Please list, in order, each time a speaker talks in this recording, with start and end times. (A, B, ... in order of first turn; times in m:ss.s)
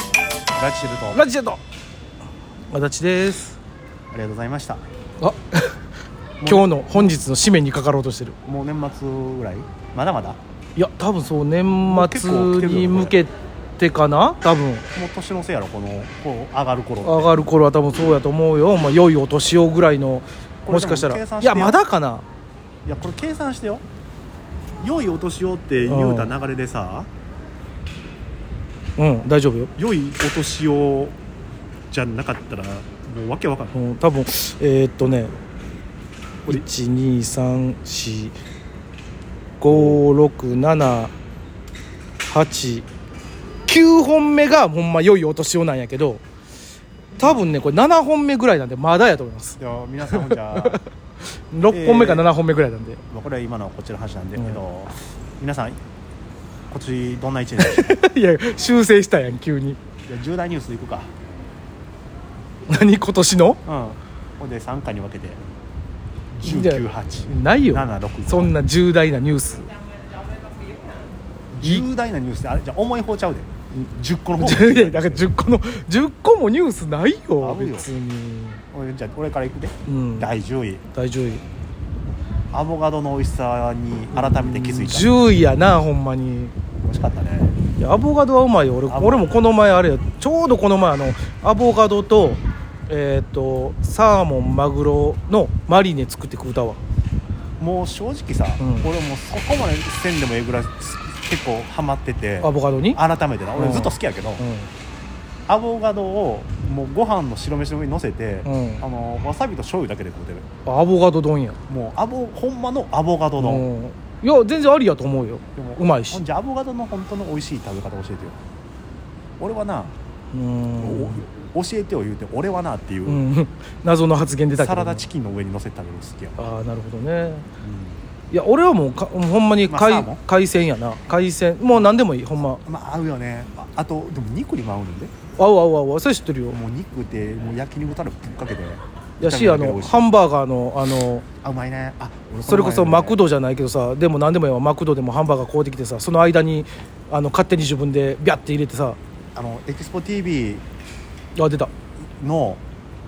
0:00.6-0:01.2 A
0:01.1-0:01.6 B
0:02.7-0:03.6 B
0:04.1-0:04.8 A
0:05.2-0:05.8 B
0:06.4-0:07.2 A
0:06.4-0:08.4 B
0:08.4-0:10.4 A
0:10.8-0:14.8 B
0:11.8-0:13.2 A
0:14.9-0:17.3 A
0:17.0-0:22.2 B
0:20.6-0:21.8 A
0:22.8-0:23.8 A
0:24.8-0:27.1 A
0:25.8-0:26.3 B
0:29.0-0:29.7 B
0:29.8-0:31.2 A
0:31.9-0:33.7 A
0:33.7-0:35.3 B
0:36.4-0:38.4 B
0:39.6-0:41.1 B
0:39.7-0:40.0 A
0:42.2-0:42.8 B
0:43.7-0:46.2 B
0:47.2-0:47.4 A
0:47.2-0:49.6 B
0:49.6-0:50.8 A
0:50.1-0:50.8 B
0:51.5-0:53.0 B
0:51.7-0:52.2 A
0:53.1-0:55.8 A
0:56.7-0:58.0 A
0:57.6-0:59.8 B
1:00.1-1:01.1 A
1:02.7-1:03.6 B
1:03.6-1:05.4 A
1:06.3-1:08.5 A
1:06.4-1:09.7 B
1:11.5-1:15.3 A
1:14.4-1:18.6 B
1:17.4-1:17.9 A
1:18.7-1:20.8 A
1:19.8-1:20.3 B
1:20.9-1:21.4 B
1:22.5-1:25.2 A
1:24.1-1:26.5 B
1:26.8-1:27.6 A
1:27.8-1:36.8 B
1:28.9-1:29.3 A
1:37.6-1:44.4 A
1:38.6-1:38.9 B
1:42.4-1:43.0 B
1:43.6-1:44.7 B
1:45.5-1:50.4 A
1:48.4-1:48.8 B
1:50.6-1:51.6 B
1:51.7-1:53.7 A
1:53.4-1:56.2 B
1:55.6-1:58.4 A
1:59.4-1:59.9 A
2:00.3-2:01.2 B
2:00.8-2:03.2 A
2:03.0-2:05.0 B
2:04.5-2:06.5 A
2:06.4-2:07.5 B
2:07.6-2:08.0 A
2:08.3-2:12.6 B
2:09.7-2:10.2 A
2:12.6-2:15.1 A
2:15.4-2:16.6 B
2:16.5-2:20.1 A
2:19.2-2:21.2 B
2:21.4-2:23.2 A
2:22.5-2:29.0 B
2:29.3-2:30.6 A
2:31.4-2:31.7 B
2:32.0-2:32.6 A